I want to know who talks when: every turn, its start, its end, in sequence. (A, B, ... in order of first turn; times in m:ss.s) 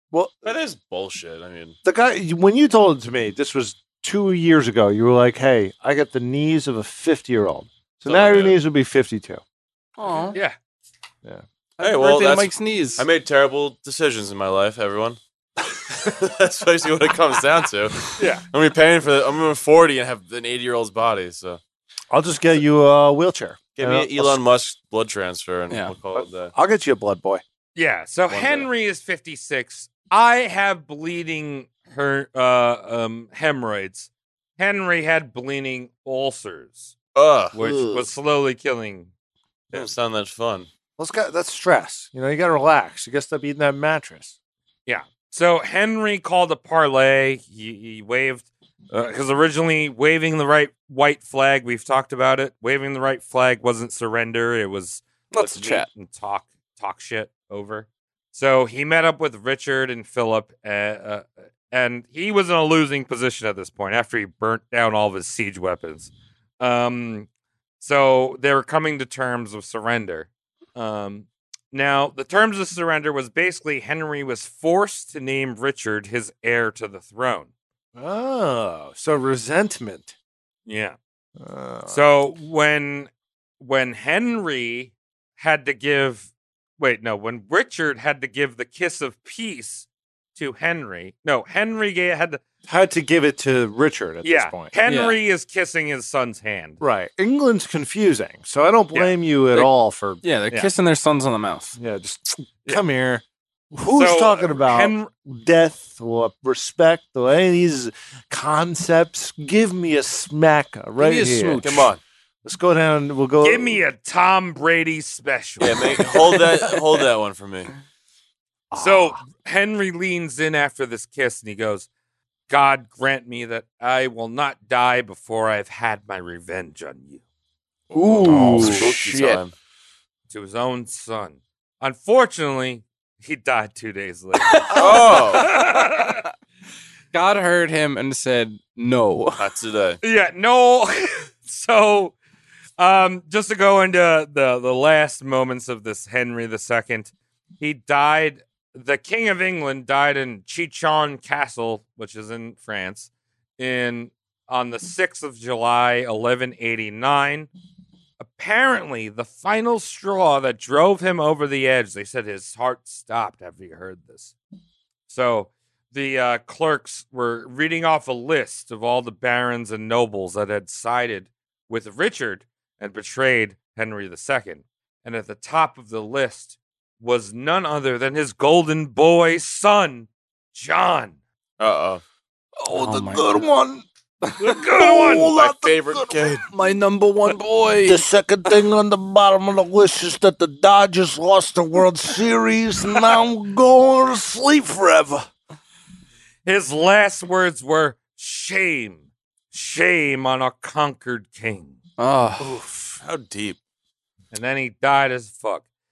0:00.1-0:00.5 A
0:00.4-0:01.8 B
0:01.8-0:09.4 A
0:08.0-0:08.6 B
0:10.0-0:10.4 C
0:11.8-0:13.0 C
0:11.8-0:15.2 B
0:15.8-0:21.6 B
0:18.2-0:18.4 D
0:22.1-0:24.4 A
0:23.8-0:26.5 B
0:26.1-0:27.4 A
0:27.7-0:36.9 D
0:28.3-0:28.7 B
0:37.1-0:38.0 B
0:37.5-0:39.1 D
0:39.7-0:40.7 B
0:41.0-0:44.3 A
0:44.9-1:07.3 D
0:55.3-0:55.9 C
1:07.8-1:17.5 D
1:17.9-1:20.1 A
1:20.6-1:21.0 D
1:21.4-1:22.0 A
1:21.9-1:26.3 D
1:26.8-1:32.4 D
1:32.7-1:34.7 A
1:34.2-1:36.8 D
1:34.9-1:35.2 C
1:36.8-1:40.2 A
1:40.2-1:41.8 C
1:41.8-1:53.8 A
1:43.9-1:45.1 D
1:51.0-1:51.8 C
1:51.6-1:52.0 B
1:53.4-1:56.1 D
1:55.6-1:57.7 B
1:58.7-1:59.2 A
1:58.8-2:01.9 D
2:02.5-2:07.2 D
2:07.9-2:09.4 C
2:08.1-2:08.9 A
2:08.2-2:09.5 B
2:10.3-2:16.2 D
2:14.5-2:15.2 C
2:14.7-2:15.5 B
2:17.1-2:19.5 C
2:19.4-2:20.0 B
2:20.0-2:22.1 D
2:22.8-2:37.5 D
2:38.2-2:44.3 D
2:45.1-3:01.2 D
3:01.6-3:02.0 B
3:02.6-3:03.8 A
3:02.7-3:03.3 C
3:04.4-3:05.3 D
3:04.5-3:06.4 A
3:05.4-3:06.4 B
3:06.5-3:08.0 C
3:07.8-3:15.3 A
3:16.4-3:21.8 D
3:22.0-3:22.6 C
3:22.4-3:23.0 A
3:23.0-3:23.6 B
3:24.3-3:25.6 D